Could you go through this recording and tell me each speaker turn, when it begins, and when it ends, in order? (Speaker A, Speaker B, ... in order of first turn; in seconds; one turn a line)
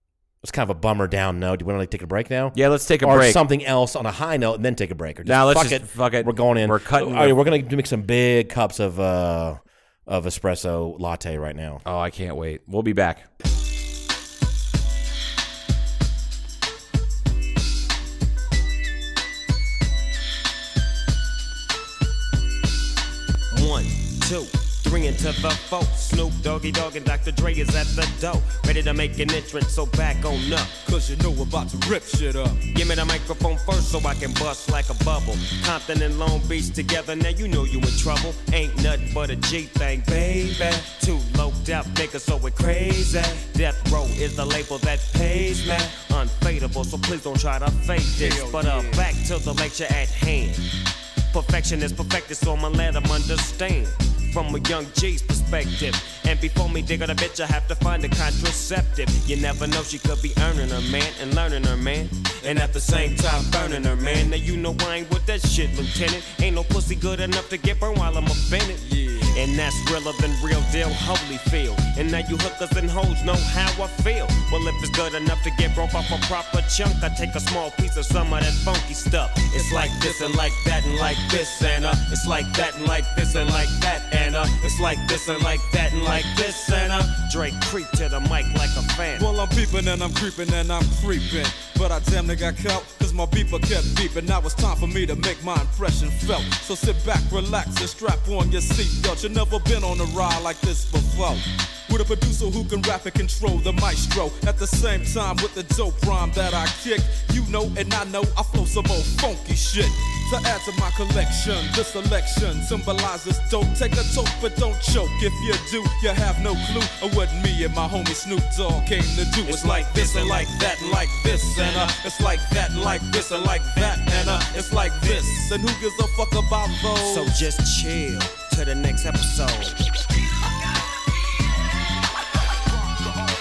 Speaker A: 0.4-11.8
Speaker B: 2.5-3.4
Speaker B: 5.2-7.4
Speaker B: 11.8-13.3
Speaker C: 23.5-30.8
Speaker D: 30.9-32.6
Speaker C: 32.7-50.7
Speaker D: 48.2-49.1
Speaker C: 51.3-89.3
Speaker D: 62.4-64.3
Speaker D: 68.8-69.4
Speaker D: 79.5-81.6
Speaker D: 83.3-83.8
Speaker D: 84.4-87.2
Speaker D: 89.2-127.4
Speaker C: 119.5-121.9
Speaker C: 127.0-129.8